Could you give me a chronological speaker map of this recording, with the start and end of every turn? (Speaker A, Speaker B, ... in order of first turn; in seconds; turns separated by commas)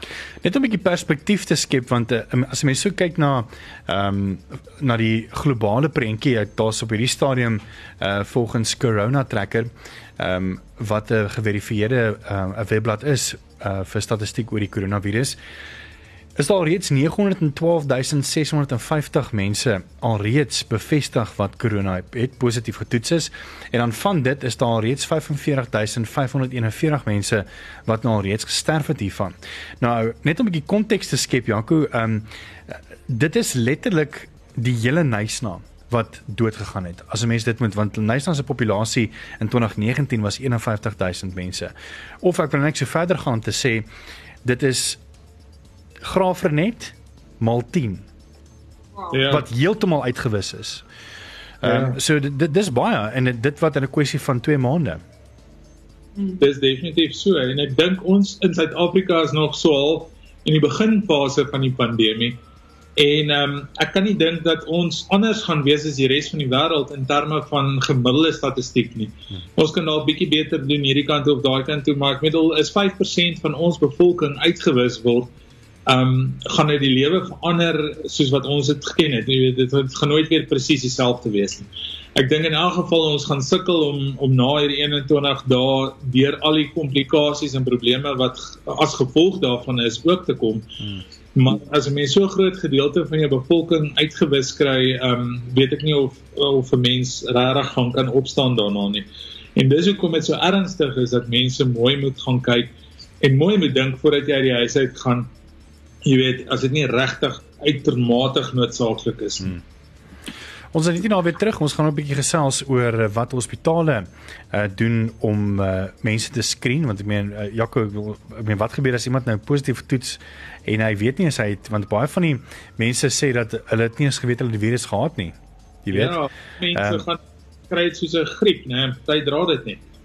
Speaker A: 0.4-15.4, Speaker A: 16.4-43.9, Speaker A: 44.4-45.0, Speaker A: 46.0-48.0, Speaker B: 49.1-49.5, Speaker A: 49.3-50.8, Speaker A: 51.6-55.0, Speaker B: 51.6-52.0, Speaker B: 56.4-62.4, Speaker B: 63.0-75.3, Speaker B: 75.9-90.7, Speaker B: 91.3-105.3, Speaker B: 106.0-109.6, Speaker A: 110.7-126.2, Speaker B: 125.9-129.8, Speaker A: 126.7-127.0